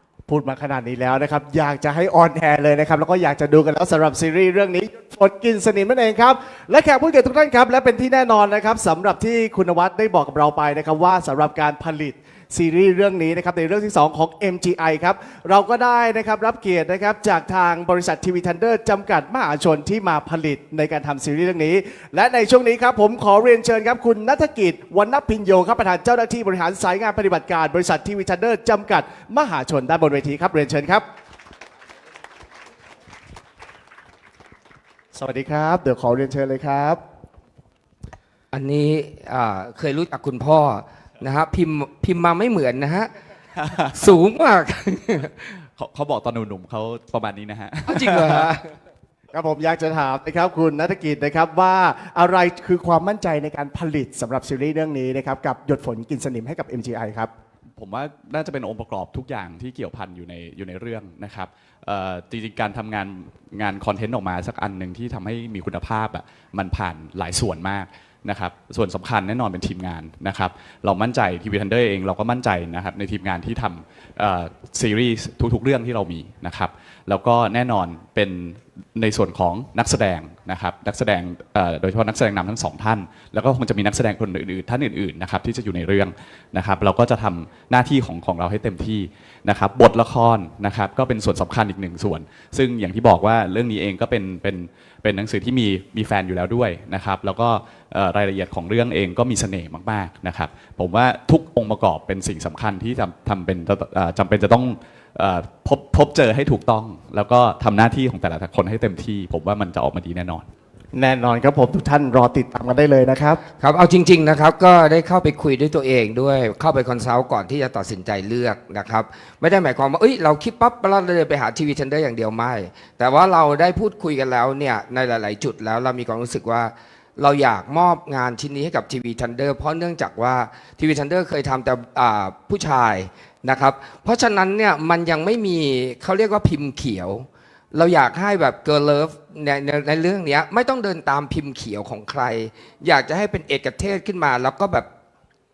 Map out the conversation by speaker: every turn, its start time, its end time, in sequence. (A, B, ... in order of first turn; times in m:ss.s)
0:00.3-0:31.0 A
0:35.1-0:37.0 A
0:38.5-0:43.1 B
0:43.6-0:43.9 C
0:43.9-0:45.3 B
0:45.8-0:48.5 C
0:47.9-0:48.7 B
0:49.3-0:57.3 A
0:57.8-1:50.4 C
1:50.9-1:53.4 A
1:53.6-2:24.9 B